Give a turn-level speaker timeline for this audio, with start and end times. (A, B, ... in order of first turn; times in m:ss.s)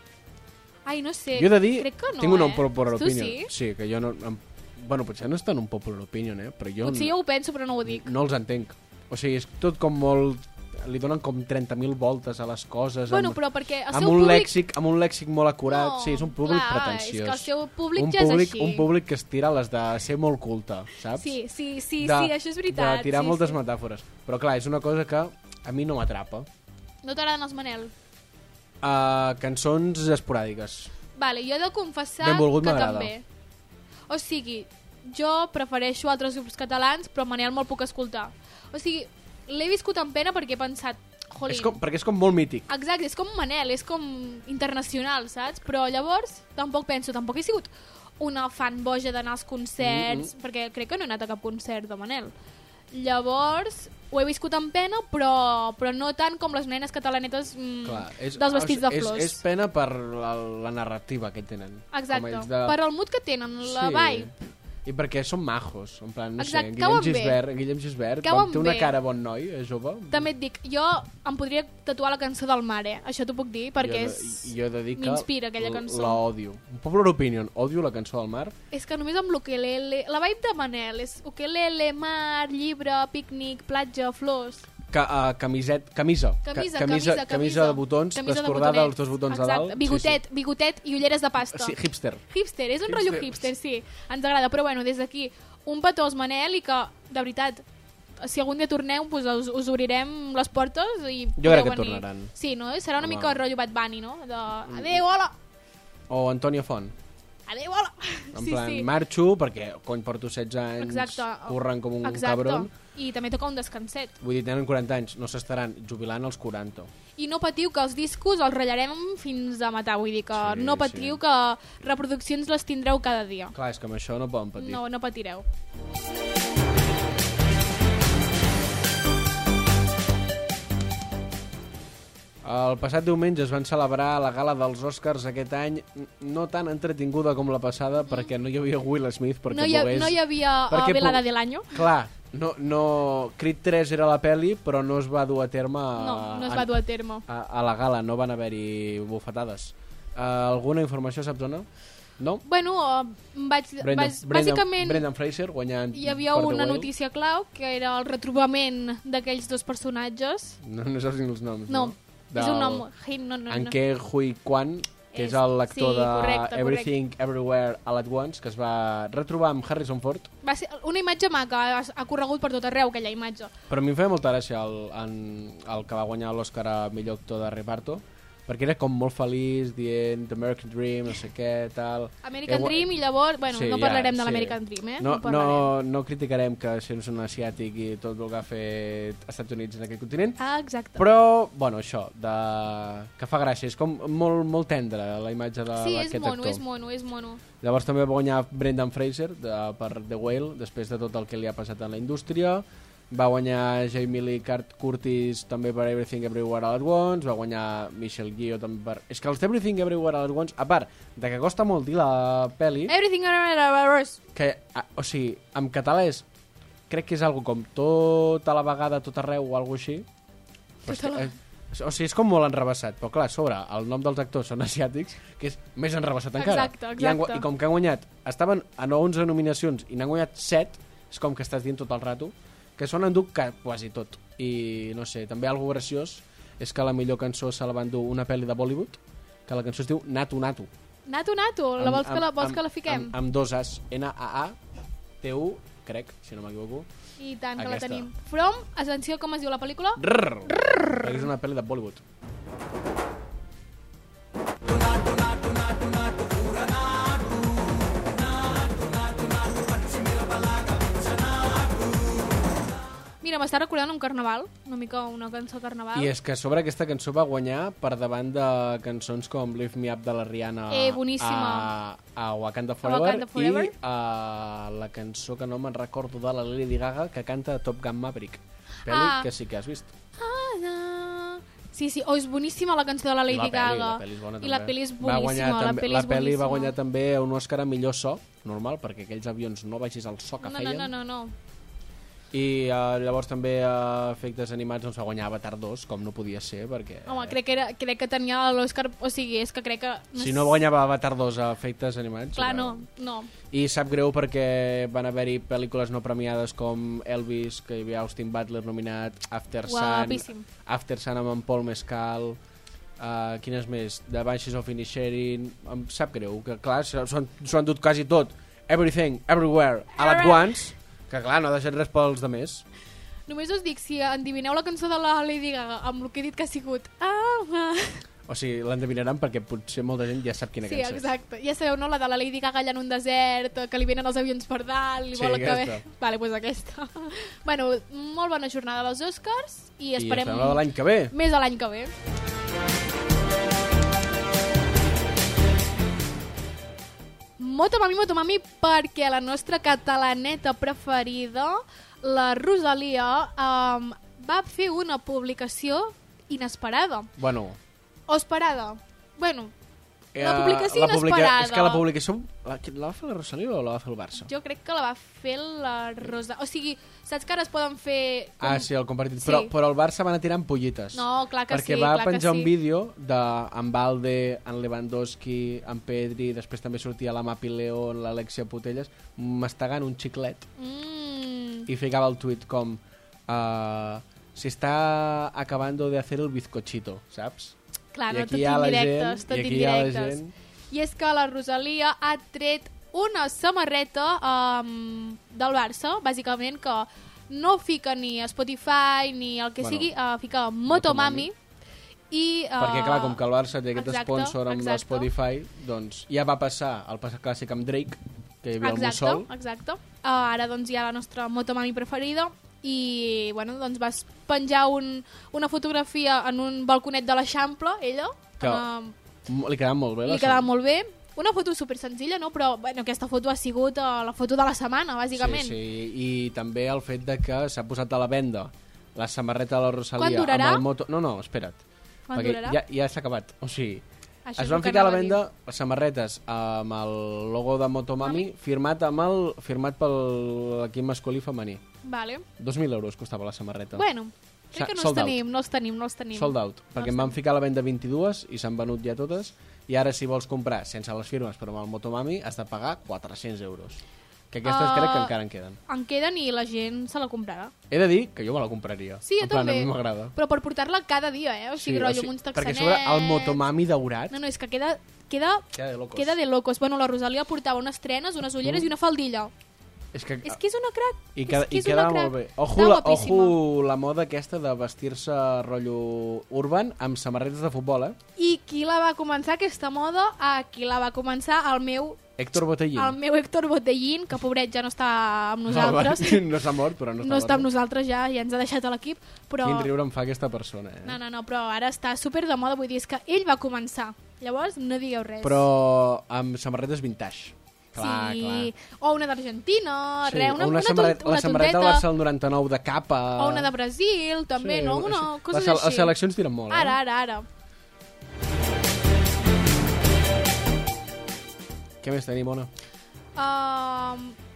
0:00.8-0:03.5 A
0:01.3-0:07.1 B
0:06.8-0:08.1 A
0:07.8-0:21.4 B
0:13.1-0:14.6 A
0:15.6-0:18.9 A
0:21.2-0:23.6 A
0:22.0-0:26.5 B
0:27.0-0:27.9 A
0:28.8-0:30.9 B
0:31.2-0:33.2 A
0:32.2-0:33.1 B
0:34.1-0:41.8 A
0:41.4-0:42.7 B
0:42.7-0:52.3 A
0:49.8-0:50.3 B
0:52.9-0:59.4 A
0:57.8-1:02.8 B
1:01.9-1:04.3 A
1:03.6-1:10.3 B
1:06.4-1:07.4 A
1:08.2-1:08.9 A
1:10.1-1:16.2 A
1:13.8-1:18.5 B
1:18.7-1:24.6 A
1:24.9-1:30.2 B
1:26.4-1:31.8 A
1:31.5-1:32.2 B
1:32.3-1:37.6 A
1:32.8-1:33.4 B
1:38.2-1:45.3 A
1:41.4-1:42.3 B
1:43.0-1:43.4 B
1:44.7-1:45.0 B
1:46.1-1:46.9 B
1:47.5-1:48.9 A
1:48.3-1:52.7 B
1:50.8-1:54.1 A
1:54.2-1:56.9 B
1:57.2-2:03.5 A
2:00.3-2:01.2 B
2:03.5-2:04.8 B
2:04.6-2:05.4 A
2:12.4-2:26.7 B
2:19.5-2:21.8 A
2:26.0-2:27.2 A
2:27.2-2:31.7 B
2:32.2-2:32.4 B
2:32.4-2:35.0 A
2:33.8-2:36.9 B
2:35.9-2:40.6 A
2:40.6-2:42.9 B
2:41.7-2:43.8 A
2:43.5-2:50.3 B
2:45.1-2:46.9 A
2:50.4-2:53.5 A
2:53.7-3:02.9 B
3:02.2-3:05.7 A
3:03.5-3:10.4 B
3:10.4-3:11.1 A
3:11.0-3:16.6 B
3:15.8-3:17.4 A
3:17.6-3:32.9 B
3:32.9-3:34.2 A
3:34.3-3:36.2 B
3:36.9-3:40.1 B
3:40.8-4:00.7 B
3:40.8-3:41.3 A
3:46.4-3:47.4 A
4:01.1-4:03.1 A
4:01.8-4:04.6 B
4:05.2-4:06.9 B
4:07.2-4:10.0 A
4:07.6-4:08.1 B
4:10.0-4:12.0 B
4:10.5-4:11.0 A
4:23.2-4:26.1 A
4:25.9-4:39.9 B
4:30.7-4:31.7 A
4:32.8-4:33.7 A
4:38.9-4:39.3 A
4:40.2-4:46.8 A
4:43.3-4:50.9 B
4:50.4-4:51.3 A
4:52.3-4:57.4 B
4:57.0-5:00.6 A
5:00.2-5:02.8 B
5:02.3-5:03.3 A
5:03.5-5:12.4 B
5:09.6-5:10.4 A
5:13.0-5:22.6 B
5:20.0-5:20.5 A
5:23.3-5:28.0 A
5:28.3-5:31.1 B
5:30.6-5:41.9 A
5:35.1-5:35.8 B
5:40.0-5:41.1 B
5:47.4-5:57.1 A
5:57.2-5:57.6 B
5:58.1-5:59.5 A
6:00.1-6:04.3 B
6:00.2-6:01.8 A
6:04.2-6:08.7 A
6:08.4-6:20.5 B
6:09.2-6:09.5 A
6:10.9-6:12.5 A
6:20.6-6:21.7 A
6:21.7-6:27.5 B
6:27.9-6:30.2 A
6:28.1-6:30.3 B
6:30.7-6:41.3 A
6:39.6-6:39.9 B
6:40.7-6:41.3 B
6:42.1-6:43.2 A
6:42.6-6:49.3 B
6:43.7-6:45.1 A
6:48.6-6:58.9 A
6:58.4-6:58.6 B
6:59.2-7:00.5 B
7:00.0-7:05.6 A
7:05.1-7:11.6 B
7:10.0-7:10.6 A
7:12.1-7:12.6 A
7:12.1-7:13.8 B
7:14.2-7:15.2 A
7:14.4-7:21.6 B
7:18.0-7:18.3 A
7:21.8-7:22.2 A
7:22.4-7:23.8 B
7:23.7-7:27.2 A
7:24.5-7:25.2 B
7:26.1-7:35.6 B
7:34.4-7:35.1 A
7:35.7-7:37.5 A
7:37.7-7:40.1 B
7:39.0-7:43.4 A
7:41.6-7:44.2 B
7:44.1-7:49.3 A
7:45.5-7:46.2 B
7:48.4-7:48.7 B
7:49.9-7:50.4 B
7:50.2-7:53.4 A
7:51.1-7:58.0 B
7:58.2-8:02.0 A
8:02.2-8:03.0 B
8:02.7-8:06.2 A
8:05.5-8:07.5 B
8:07.0-8:09.7 A
8:09.4-8:11.0 B
8:10.8-8:15.5 A
8:15.2-8:18.5 B
8:17.8-8:21.9 A
8:20.0-8:23.5 B
8:23.2-8:25.9 A
8:24.4-8:26.8 B
8:26.5-8:27.2 A
8:31.8-8:32.5 B
8:33.2-8:34.2 A